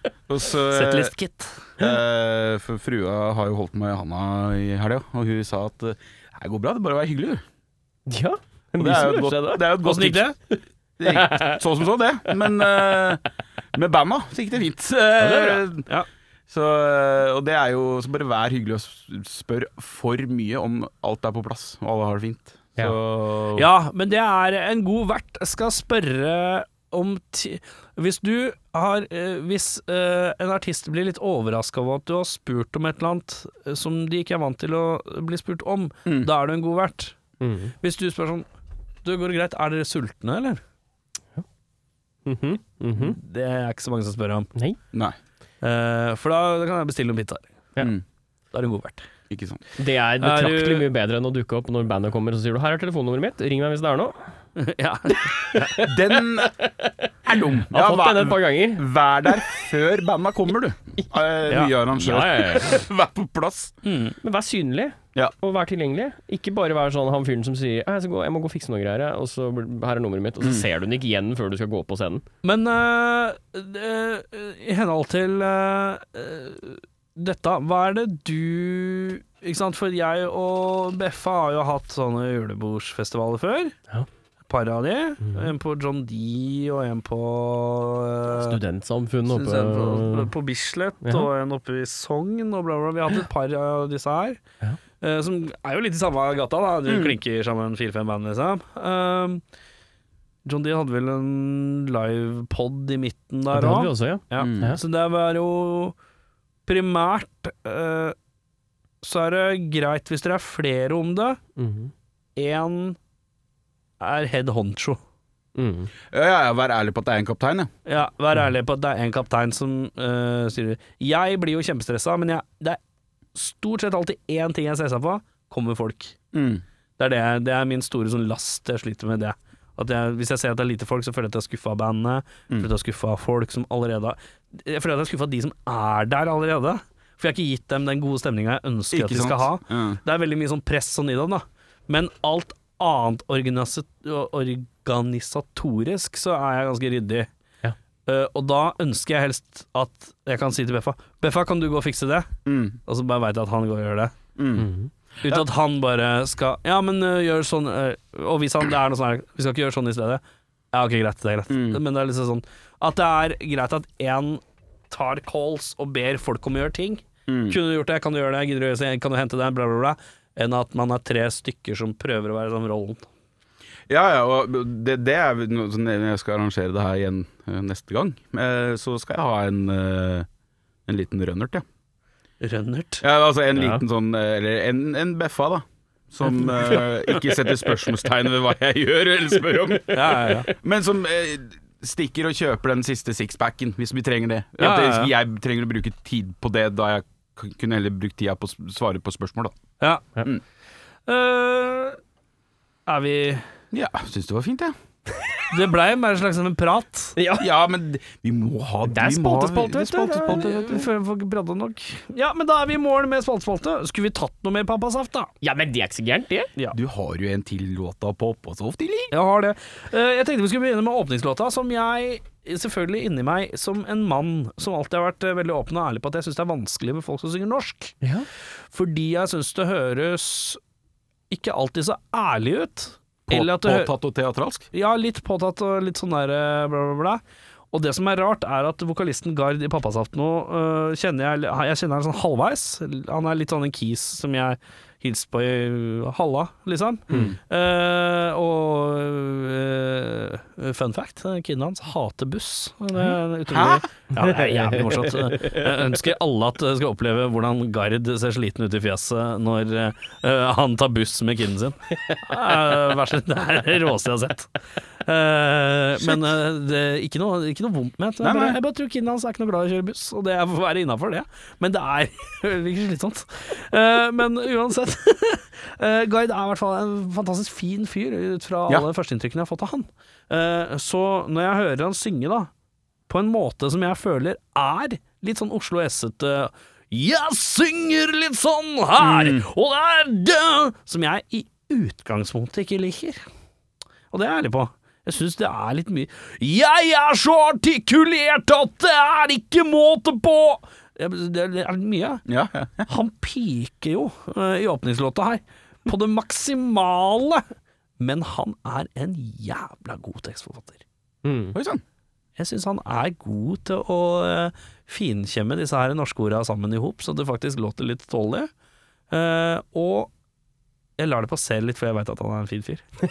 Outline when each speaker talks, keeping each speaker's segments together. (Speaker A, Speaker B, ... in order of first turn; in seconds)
Speaker A: 0.3-1.1, 1.8-7.4, 8.8-10.3, 11.0-13.2, 13.7-15.8, 16.5-23.7, 49.3-49.6, 55.8-56.5, 57.2-63.7, 96.9-97.2, 104.3-104.8, 116.1-117.7, 126.3-126.6, 138.9-140.0, 152.4-152.8, 154.4-154.7, 161.5-161.8, 167.3-167.6, 173.9-180.3, 180.9-181.6, 183.0-199.6, 203.7-204.7, 207.4-210.9, 216.7-219.1, 233.3-234.7, 247.1-247.4, 253.5-253.8, 268.2-268.6, 289.0-289.4, 302.3-302.9, 311.5-311.8
Speaker B: 0.7-1.7, 9.8-10.3, 15.2-16.1, 23.6-37.2, 37.8-38.5, 39.0-40.6, 43.0-44.5, 45.6-47.5, 48.5-49.0, 50.2-50.9, 54.6-55.7, 63.8-64.2, 72.4-83.7, 84.5-88.6, 89.3-94.4, 95.0-99.4, 100.4-105.9, 106.7-108.2, 109.0-111.4, 112.3-113.0, 114.0-115.0, 117.8-122.8, 123.3-126.2, 127.0-147.3, 148.1-152.3, 152.8-154.2, 155.2-160.2, 160.7-173.1, 182.4-183.0, 189.9-190.5, 194.6-195.1, 199.8-200.2, 201.1-202.0, 202.9-203.5, 205.5-207.1, 210.2-215.3, 219.1-228.0, 228.7-230.6, 231.3-233.9, 234.7-237.2, 237.7-264.5, 265.1-282.5, 283.1-293.2, 294.1-302.2, 302.9-307.4, 308.0-310.8, 312.4-318.5, 319.1-320.1, 321.0-322.8
Speaker C: 8.1-9.6, 11.1-11.6, 37.4-37.7, 42.2-43.2, 49.8-54.2, 55.2-57.1, 57.7-58.8, 62.0-62.8, 64.2-72.2, 85.2-85.5, 88.3-90.3, 91.0-91.3, 103.5-104.8, 111.6-111.9, 115.5-115.9, 154.6-154.9, 183.6-183.8, 207.2-207.4, 208.9-210.5, 215.4-216.5, 228.0-228.3, 254.2-255.7, 311.2-311.6